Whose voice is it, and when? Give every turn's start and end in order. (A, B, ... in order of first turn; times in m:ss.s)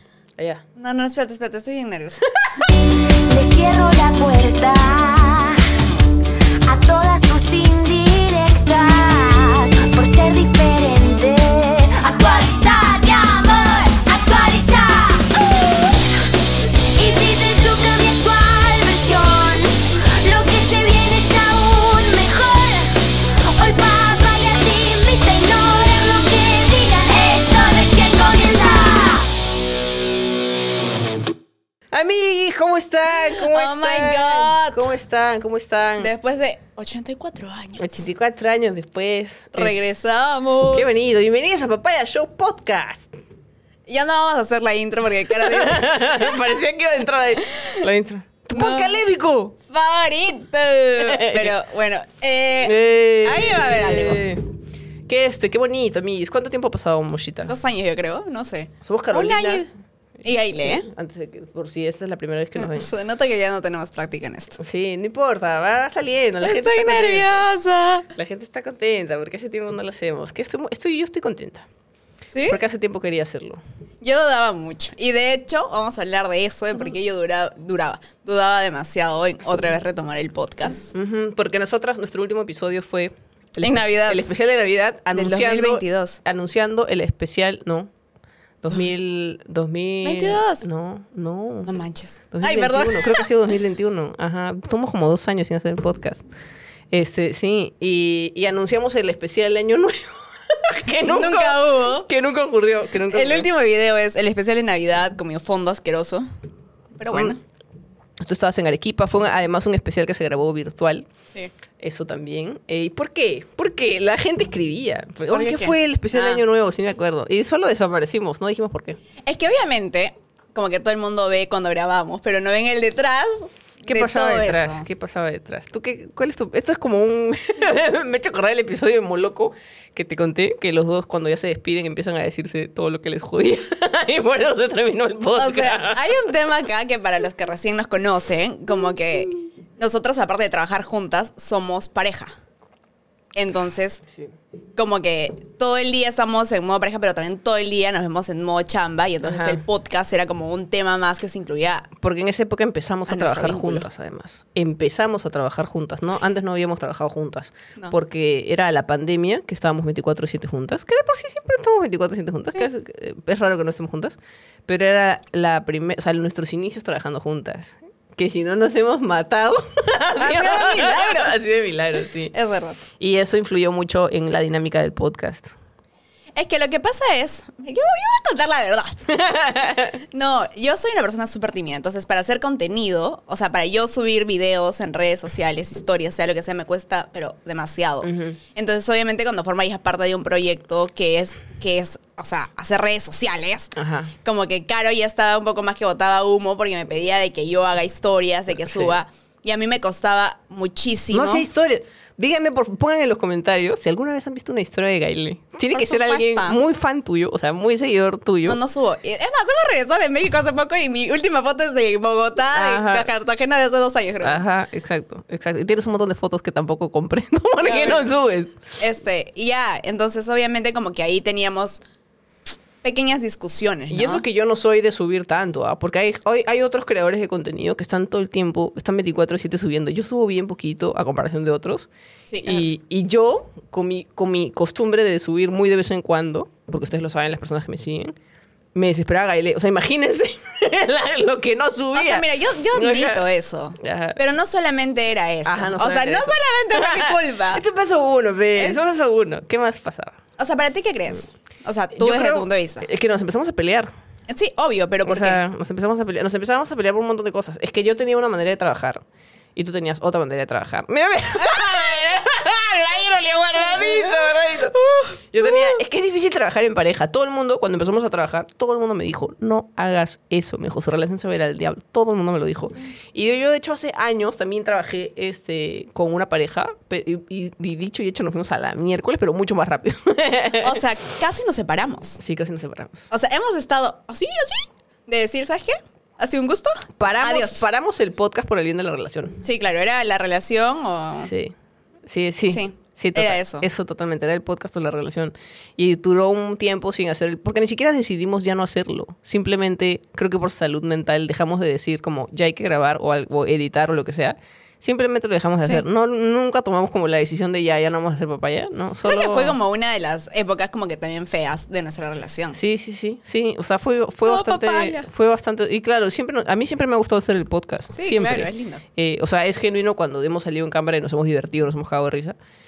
0:00.4-0:00.6 A
0:00.8-0:02.6 B
0:03.3-0:05.6 C
0:06.7-0:16.1 C
0:17.0-0:29.3 C
0:31.9-0:36.1 A
0:33.1-0:34.9 B
0:36.0-0:38.0 B
0:37.8-0:39.8 A
0:39.6-0:40.9 B
0:40.7-0:43.1 A
0:43.9-0:46.4 B
0:45.4-0:49.6 A
0:47.4-0:47.8 B
0:48.5-0:49.0 B
0:49.7-0:54.2 B
0:51.0-0:51.5 A
0:52.6-0:54.4 A
0:55.1-0:57.5 A
0:57.5-0:59.7 B
0:58.8-0:59.7 A
1:00.2-1:02.9 A
1:00.2-1:00.9 B
1:02.6-1:04.6 B
1:04.6-1:07.3 A
1:06.4-1:08.1 B
1:08.1-1:11.7 A
1:12.3-1:12.6 B
1:12.5-1:13.6 A
1:14.0-1:20.9 B
1:20.9-1:27.9 A
1:23.6-1:24.3 B
1:25.1-1:26.2 B
1:28.6-1:31.7 A
1:30.0-1:30.6 B
1:31.6-1:33.3 B
1:32.3-1:36.2 A
1:36.9-1:43.5 A
1:41.0-1:42.1 B
1:43.1-1:46.3 B
1:47.0-1:47.4 B
1:48.2-1:51.1 A
1:51.8-1:59.0 A
1:55.3-1:56.4 B
1:59.2-2:04.9 B
2:03.9-2:16.0 A
2:15.4-2:22.3 B
2:23.4-2:24.0 B
2:24.8-2:31.9 B
2:29.2-2:29.6 A
2:32.0-2:52.3 A
2:33.1-2:33.9 B
2:50.2-2:51.4 B
2:52.3-2:52.8 B
2:53.0-2:55.5 A
2:56.4-2:59.0 B
2:59.1-3:00.0 A
3:00.1-3:21.5 B
3:08.0-3:08.4 A
3:13.8-3:14.1 A
3:18.6-3:18.9 A
3:21.1-3:28.6 A
3:25.7-3:26.6 B
3:28.5-3:34.4 B
3:32.5-3:33.1 A
3:34.2-3:38.6 A
3:37.6-3:38.1 B
3:38.8-3:41.8 B
3:42.8-3:44.2 B
3:43.9-3:51.9 A
3:52.3-3:52.7 B
3:52.4-3:58.2 A
3:58.8-4:03.2 A
4:02.0-4:07.6 B
4:03.8-4:04.2 A
4:05.5-4:10.2 A
4:10.4-4:12.9 B
4:11.9-4:13.9 A
4:14.3-4:15.4 B
4:15.0-4:19.0 A
4:19.6-4:24.8 A
4:21.4-4:22.0 B
4:23.8-4:25.8 B
4:25.3-4:40.8 A
4:40.6-4:42.2 B
4:42.2-4:43.1 A
4:43.1-4:47.6 B
4:47.0-4:49.4 A
4:49.4-4:51.3 B
4:51.2-4:51.5 A
4:52.1-5:09.6 A
4:52.5-4:53.7 B
5:09.0-5:12.6 B
5:12.5-5:22.4 A
5:14.3-5:15.1 B
5:17.9-5:18.8 B